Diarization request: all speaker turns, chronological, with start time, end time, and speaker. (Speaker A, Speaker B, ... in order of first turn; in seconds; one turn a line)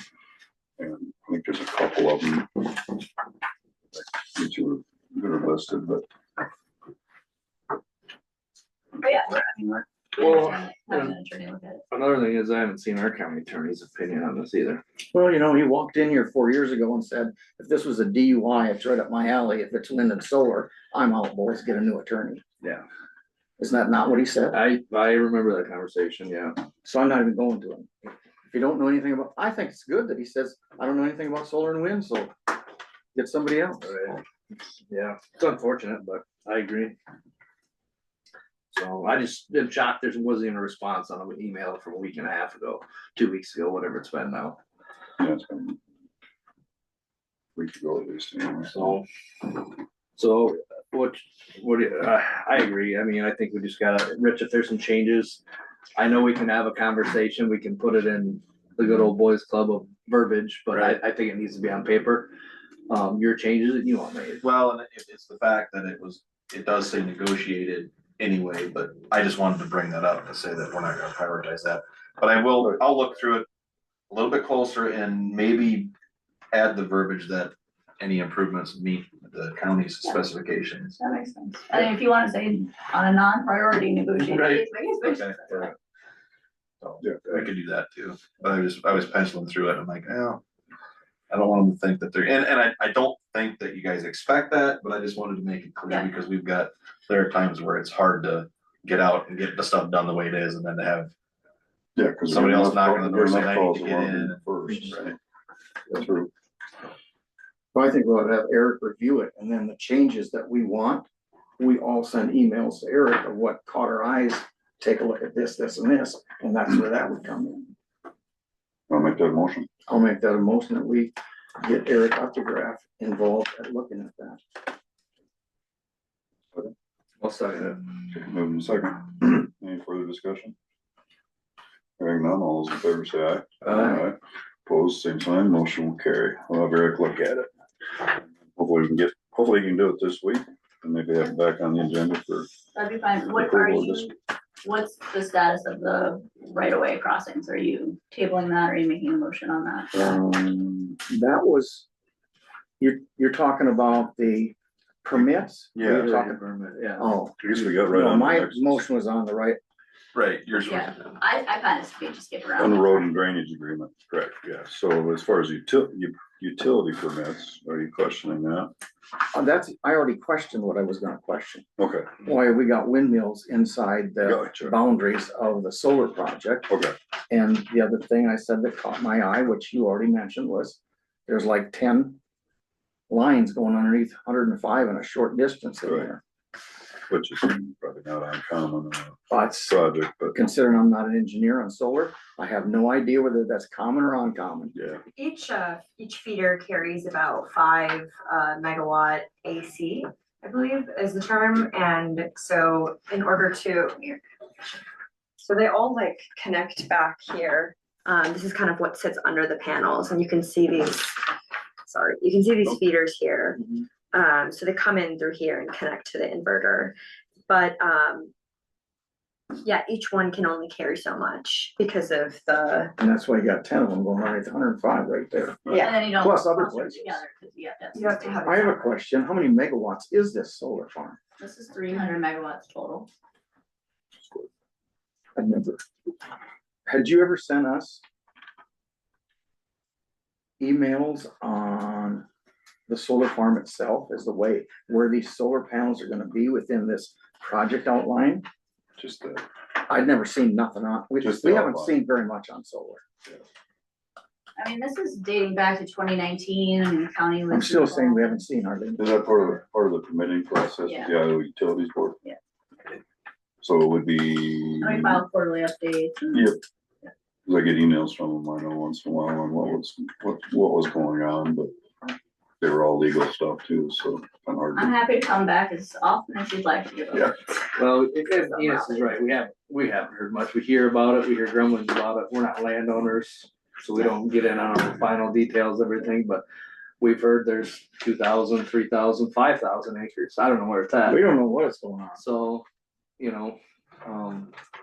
Speaker A: 0.8-2.8
Speaker A: 3.9-6.0
Speaker B: 9.0-11.8
Speaker C: 10.2-11.1
Speaker C: 11.9-14.8
Speaker D: 15.1-22.4
Speaker D: 23.6-24.6
Speaker C: 24.5-26.6
Speaker D: 26.8-27.9
Speaker D: 28.5-32.3
Speaker D: 33.1-34.1
Speaker C: 33.8-34.2
Speaker C: 34.9-36.9
Speaker C: 38.7-44.6
Speaker A: 45.2-45.8
Speaker A: 47.5-49.0
Speaker C: 48.7-49.0
Speaker C: 50.1-55.4
Speaker C: 56.0-62.3
Speaker C: 62.9-64.4
Speaker E: 64.4-73.5
Speaker E: 74.1-75.9
Speaker E: 76.5-81.0
Speaker B: 81.0-85.7
Speaker C: 84.2-84.6
Speaker E: 85.0-85.7
Speaker E: 86.8-90.4
Speaker A: 87.0-87.4
Speaker E: 91.3-101.1
Speaker A: 102.0-105.1
Speaker E: 102.3-105.2
Speaker A: 105.9-106.3
Speaker D: 107.7-111.0
Speaker D: 111.6-117.7
Speaker A: 118.9-119.7
Speaker D: 119.9-124.4
Speaker C: 127.2-127.8
Speaker A: 128.1-130.6
Speaker A: 132.0-142.5
Speaker C: 133.6-134.0
Speaker B: 142.7-144.1
Speaker A: 143.3-144.1
Speaker B: 144.6-149.9
Speaker D: 149.9-151.8
Speaker D: 152.8-156.4
Speaker A: 155.7-156.1
Speaker C: 155.8-157.1
Speaker D: 157.0-159.6
Speaker A: 157.4-158.8
Speaker E: 160.1-161.2
Speaker B: 160.6-163.0
Speaker A: 162.6-168.7
Speaker D: 169.3-171.6
Speaker A: 171.8-172.1
Speaker D: 172.2-176.7
Speaker A: 174.2-174.8
Speaker A: 176.7-176.9
Speaker D: 177.3-182.2
Speaker D: 183.1-186.2
Speaker A: 185.8-186.1
Speaker A: 187.1-190.4
Speaker D: 189.3-189.8
Speaker D: 190.3-194.8
Speaker A: 194.7-195.0
Speaker F: 195.1-204.2
Speaker F: 205.4-211.2
Speaker F: 211.9-213.6
Speaker F: 214.1-216.9
Speaker F: 217.5-218.3
Speaker F: 219.6-222.9
Speaker D: 223.0-227.2
Speaker F: 225.7-226.0
Speaker B: 225.7-228.7
Speaker F: 227.9-229.0
Speaker D: 228.4-231.2
Speaker B: 231.4-233.1
Speaker A: 234.1-234.5
Speaker D: 235.3-235.8
Speaker D: 236.9-238.0
Speaker D: 240.6-242.2
Speaker D: 242.9-248.4
Speaker A: 249.0-249.4
Speaker D: 249.8-253.0
Speaker A: 251.2-251.9
Speaker B: 254.6-258.4
Speaker D: 257.5-259.1
Speaker A: 259.0-262.2
Speaker B: 260.8-261.1
Speaker A: 263.6-265.2
Speaker B: 264.8-266.6
Speaker A: 266.3-266.6
Speaker A: 267.4-271.7
Speaker A: 272.6-275.0
Speaker B: 274.7-277.3
Speaker C: 277.8-286.4
Speaker B: 278.4-279.2
Speaker C: 287.0-291.3
Speaker D: 291.1-292.2
Speaker C: 292.1-292.6
Speaker C: 293.2-294.5